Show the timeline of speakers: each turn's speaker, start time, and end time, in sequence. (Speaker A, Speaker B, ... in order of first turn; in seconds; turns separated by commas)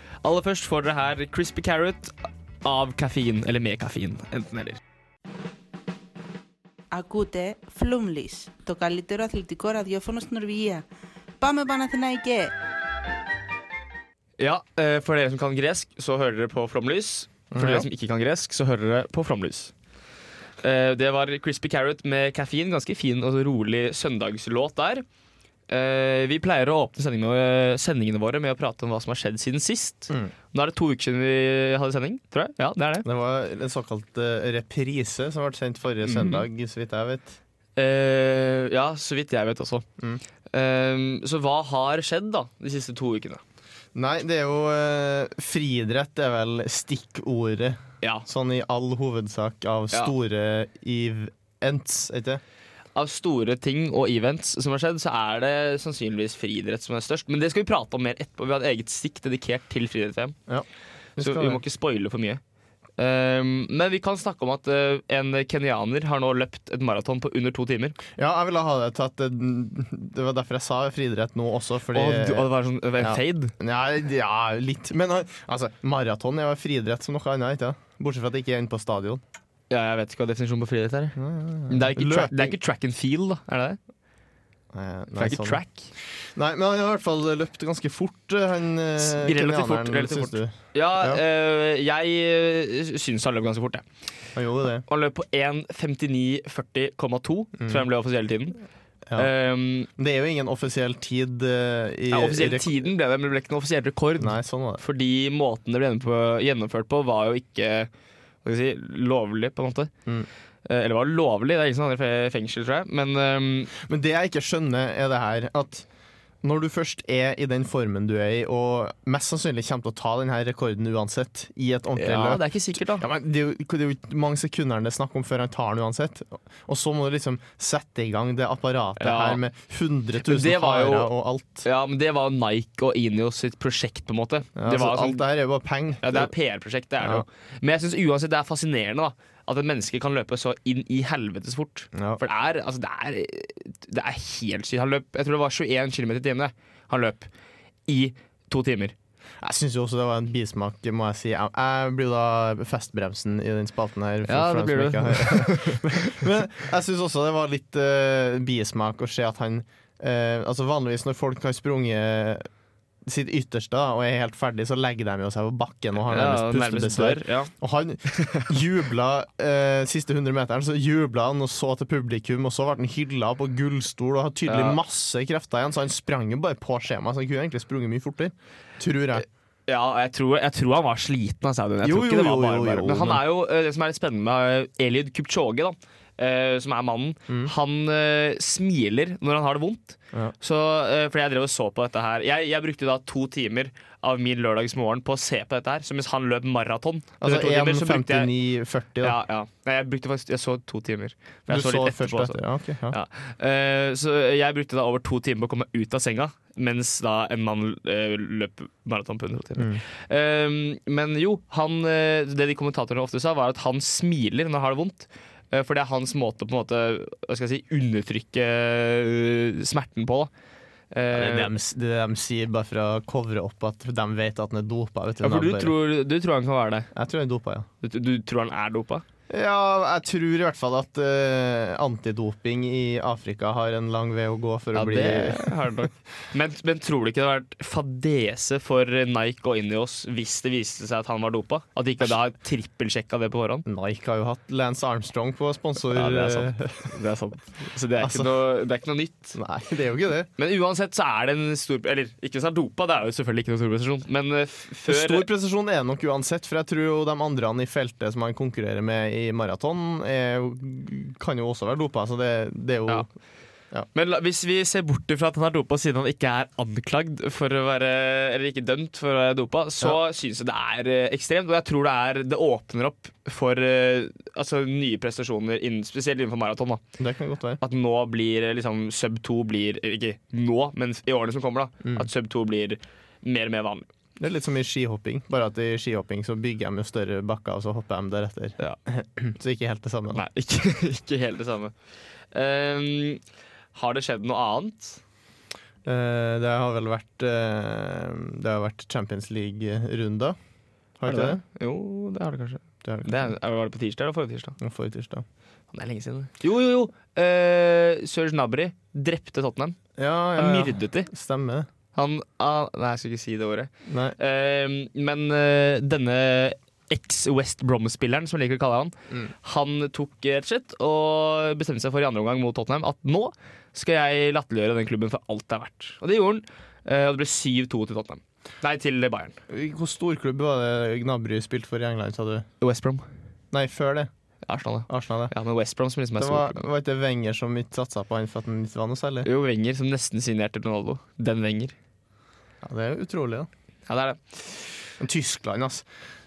Speaker A: 0.2-4.8, Speaker B: 6.9-10.9, Speaker B: 11.4-12.5, Speaker A: 14.4-19.7, Speaker C: 17.5-17.9, Speaker A: 20.6-25.1, Speaker A: 25.7-33.1, Speaker C: 33.0-37.4, Speaker A: 36.0-36.5, Speaker A: 37.8-39.9, Speaker A: 40.5-43.4, Speaker C: 44.0-52.4, Speaker A: 53.0-60.4, Speaker C: 61.2-61.6, Speaker A: 61.2-62.4, Speaker A: 63.0-68.0, Speaker C: 68.2-79.2, Speaker A: 71.9-73.5, Speaker A: 79.7-81.2, Speaker C: 81.2-82.5, Speaker A: 81.7-83.8, Speaker C: 84.7-85.6, Speaker A: 85.2-85.9, Speaker C: 86.2-91.2, Speaker A: 89.0-93.8, Speaker C: 94.3-94.8, Speaker A: 94.9-98.6, Speaker C: 97.6-97.9, Speaker A: 99.2-99.9, Speaker C: 100.0-102.7, Speaker A: 102.1-107.9, Speaker C: 104.2-104.8, Speaker A: 108.4-109.9, Speaker A: 110.7-113.7, Speaker C: 113.8-115.9, Speaker C: 116.4-131.7, Speaker A: 122.0-123.0, Speaker A: 129.0-129.4, Speaker A: 130.2-131.1, Speaker A: 131.6-135.2, Speaker C: 134.6-136.3, Speaker A: 136.0-147.3, Speaker C: 137.0-137.2, Speaker C: 141.9-142.2, Speaker A: 147.9-148.9, Speaker C: 149.4-162.5, Speaker A: 154.3-156.2, Speaker C: 163.1-179.3, Speaker A: 166.1-167.5, Speaker A: 168.1-168.5, Speaker A: 174.5-174.8, Speaker A: 179.7-198.3, Speaker C: 181.8-183.3, Speaker C: 197.2-199.2, Speaker A: 199.0-202.4, Speaker C: 201.5-203.0, Speaker A: 202.9-220.3, Speaker C: 209.6-209.8, Speaker A: 220.9-221.5, Speaker C: 221.1-225.8, Speaker A: 225.2-226.9, Speaker C: 226.9-227.7, Speaker A: 227.8-229.1, Speaker C: 229.3-235.9, Speaker A: 234.7-243.7, Speaker C: 243.7-247.0, Speaker A: 245.9-249.4, Speaker C: 248.0-248.3, Speaker C: 249.3-250.3, Speaker A: 250.4-255.3, Speaker C: 254.9-263.1, Speaker A: 263.9-276.8, Speaker C: 277.0-277.6, Speaker A: 277.6-283.9, Speaker C: 281.8-282.1, Speaker C: 284.2-290.2, Speaker A: 290.1-291.7, Speaker A: 292.3-293.2, Speaker A: 293.7-295.0, Speaker C: 295.9-300.4, Speaker C: 301.0-301.4, Speaker A: 301.1-304.6, Speaker C: 302.8-303.3, Speaker C: 304.6-305.2, Speaker A: 305.7-309.8, Speaker C: 310.0-311.7, Speaker A: 310.4-311.1, Speaker A: 311.9-329.4, Speaker C: 313.9-314.2, Speaker C: 329.5-332.5, Speaker A: 332.6-333.1, Speaker C: 333.5-334.1, Speaker A: 334.5-336.7, Speaker C: 334.9-335.3, Speaker C: 336.2-339.3, Speaker A: 339.2-341.8, Speaker C: 342.6-343.5, Speaker A: 343.9-344.7, Speaker C: 345.0-345.9